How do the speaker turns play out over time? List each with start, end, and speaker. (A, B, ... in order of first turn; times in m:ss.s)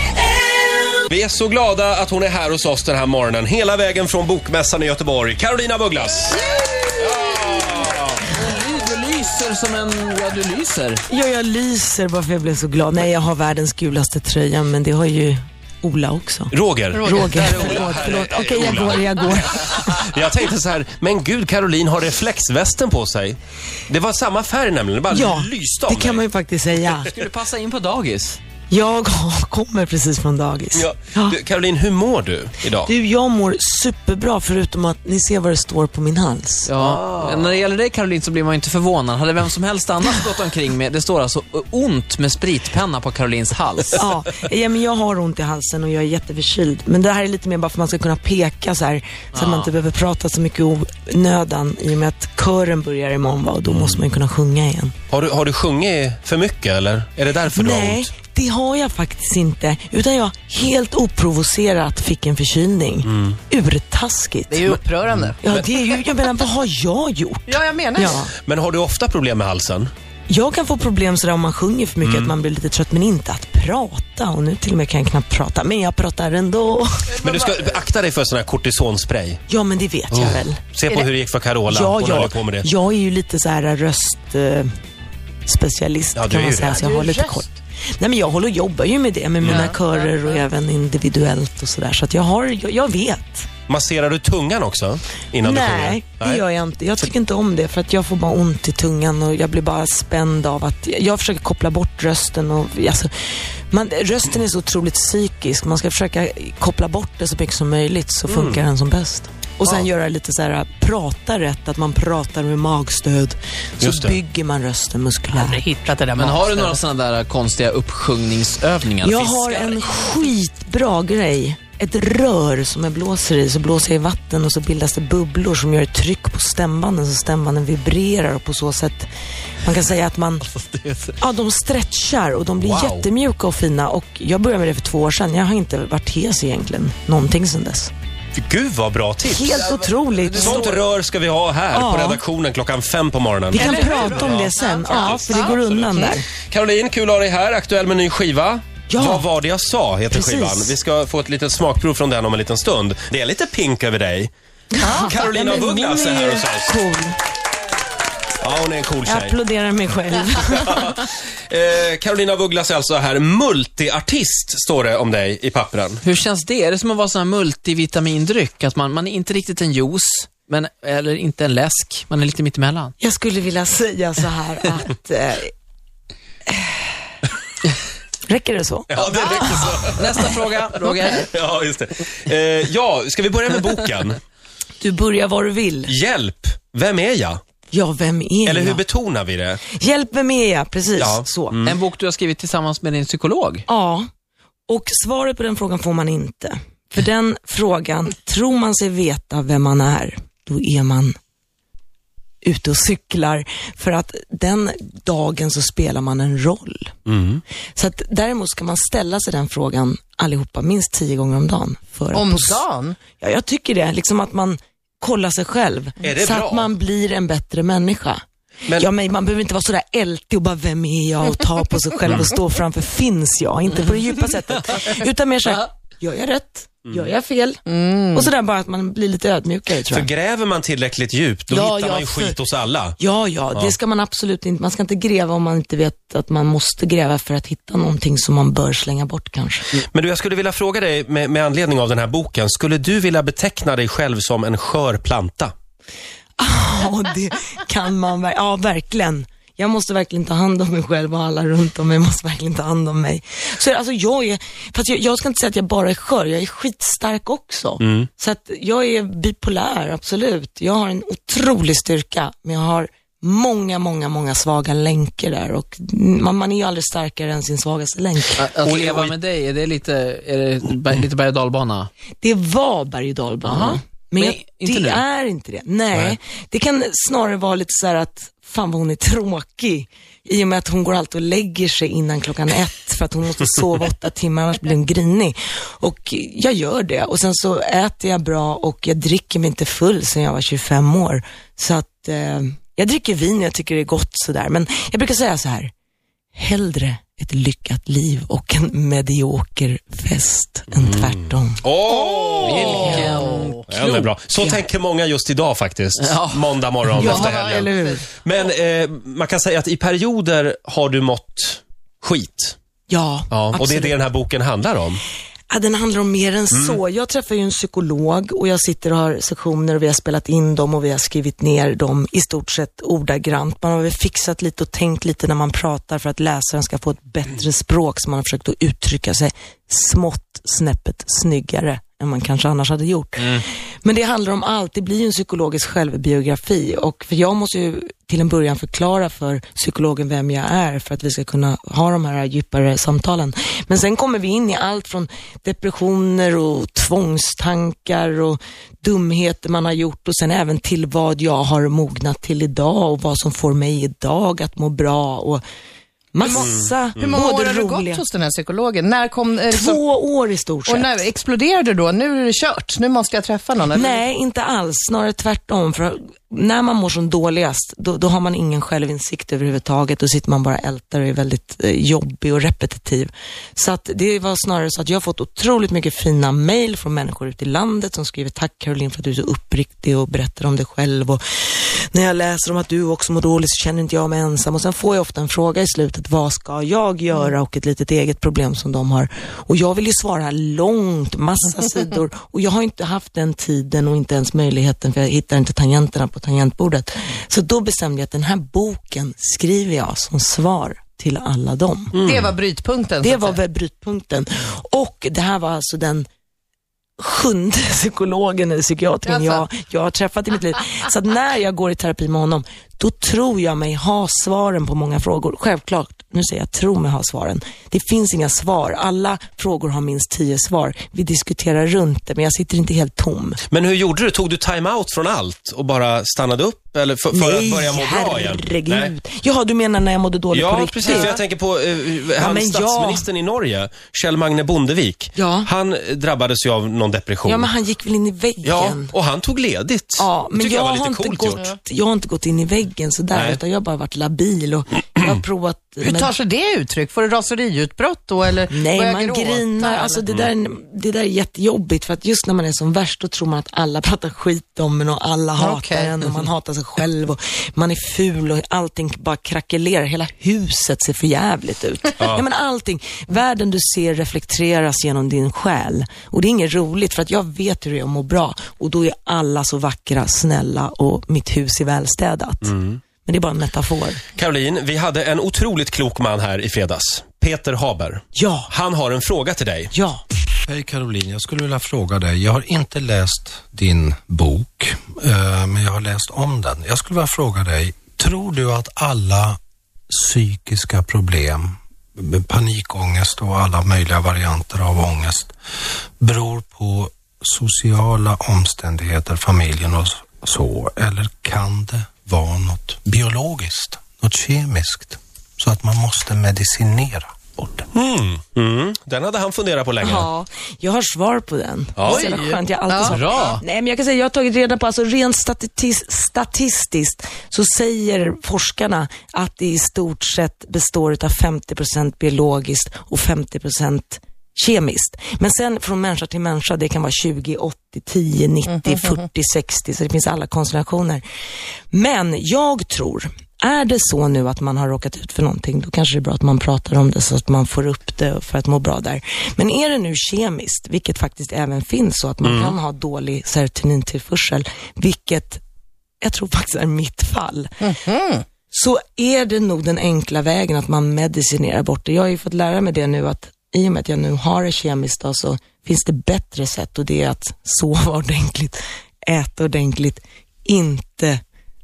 0:01.1-0:06.4 A
0:07.0-0:08.3 A
0:08.3-0:11.0 B
0:11.1-0:20.1 C
0:16.5-0:26.2 A
0:16.9-0:18.1 D
0:17.8-0:18.3 B
0:25.1-0:27.1 C
0:27.0-0:28.4 B
0:28.7-0:31.4 C
0:30.8-0:32.9 A
0:32.8-0:36.7 C
0:36.7-0:44.0 B
0:36.8-0:37.6 A
0:44.0-0:54.9 C
0:49.3-0:49.7 B
0:53.7-0:54.0 A
0:55.1-0:58.1 A
0:57.5-1:04.7 C
1:03.1-1:03.4 A
1:04.5-1:05.4 D
1:04.7-1:05.6 A
1:05.4-1:08.3 C
1:07.5-1:08.3 D
1:08.3-1:09.9 A
1:10.3-1:17.2 C
1:12.0-1:12.3 A
1:17.2-1:19.4 A
1:19.5-1:21.1 C
1:20.1-1:22.7 A
1:21.7-1:24.7 C
1:25.5-1:27.5 C
1:26.2-1:26.8 A
1:26.8-1:27.5 D
1:28.0-1:33.5 C
1:29.4-1:29.7 A
1:29.4-1:30.1 D
1:33.7-1:36.4 A
1:35.4-1:43.1 C
1:43.7-1:55.6 C
1:48.3-1:48.6 A
1:53.8-1:54.2 A
1:55.7-1:56.8 D
1:56.1-1:59.8 B
1:59.0-2:09.1 C
2:09.6-2:10.4 C
2:10.6-2:11.1 B
2:11.2-2:17.9 C
2:12.6-2:13.1 A
2:18.3-2:19.6 A
2:19.2-2:20.7 C
2:19.6-2:20.8 B
2:20.4-2:34.3 A
2:21.7-2:22.2 C
2:23.5-2:26.3 C
2:23.6-2:26.2 D
2:28.9-2:29.3 C
2:30.1-2:30.8 C
2:34.7-2:37.2 C
2:34.8-2:35.6 D
2:35.0-2:36.8 A
2:38.4-2:39.4 A
2:39.1-2:41.0 C
2:40.6-2:46.0 A
2:46.0-2:52.9 B
2:53.0-2:55.5 C
2:58.3-2:59.7 C
2:58.9-3:00.2 A
2:59.6-3:01.3 B
3:01.1-3:04.2 A
3:04.8-3:05.9 C
3:05.9-3:07.4 A
3:07.7-3:08.8 C
3:08.5-3:09.6 A
3:09.7-3:11.6 C
3:11.0-3:11.8 A
3:11.6-3:13.6 B
3:13.7-3:14.1 C
3:14.7-3:21.2 C
3:22.4-3:26.9 C
3:27.1-3:27.4 A
3:27.8-3:38.2 C
3:32.1-3:33.0 D
3:36.0-3:36.7 A
3:38.8-3:47.6 C
3:47.7-3:48.3 D
3:48.1-3:50.1 C
3:49.9-3:53.0 A
3:51.5-3:52.4 C
3:53.0-3:59.7 C
3:59.8-4:05.5 A
4:06.4-4:28.4 C
4:17.8-4:18.1 A
4:28.4-4:31.9 B
4:28.6-4:29.2 A
4:32.2-4:55.7 C
4:33.4-4:35.0 B
4:56.3-5:01.6 C
5:00.8-5:03.1 A
5:02.4-5:04.1 B
5:02.6-5:03.5 D
5:02.6-5:03.0 C
5:03.7-5:12.6 A
5:04.4-5:04.6 C
5:06.0-5:07.2 B
5:07.0-5:08.0 C
5:07.0-5:08.1 D
5:12.9-5:14.0 C
5:13.3-5:15.0 A
5:15.5-5:55.4 C
5:16.5-5:16.8 A
5:33.2-5:33.4 B
5:56.1-5:58.0 C
5:56.2-5:59.8 D
5:56.4-5:57.2 A
5:59.5-6:01.0 C
6:00.7-6:04.0 D
6:03.7-6:42.0 C
6:42.0-6:42.3 A
6:42.0-6:43.4 D
6:43.0-6:46.1 C
6:47.0-7:03.4 C
6:49.1-6:49.4 D
7:03.5-7:08.9 A
7:07.1-7:11.2 C
7:10.3-7:17.5 A
7:12.2-7:13.0 C
7:15.2-7:15.5 C
7:17.2-7:18.9 C
7:18.4-7:21.5 A
7:20.0-7:26.1 C
7:23.1-7:23.4 A
7:25.8-7:30.0 D
7:28.5-7:54.0 C
7:35.4-7:36.2 D
7:52.4-7:52.8 A
7:54.2-7:59.7 A
7:58.2-7:58.5 C
7:59.7-8:00.0 C
8:00.5-8:15.3 E
8:16.0-8:27.6 E
8:27.7-8:30.1 A
8:29.8-8:51.0 C
8:31.8-8:32.1 A
8:31.9-8:33.3 D
8:32.8-8:33.4 B
8:48.6-8:48.9 D
8:51.7-9:05.4 C
9:02.2-9:02.6 A
9:06.0-9:07.7 C
9:07.6-9:08.3 D
9:08.5-9:21.2 C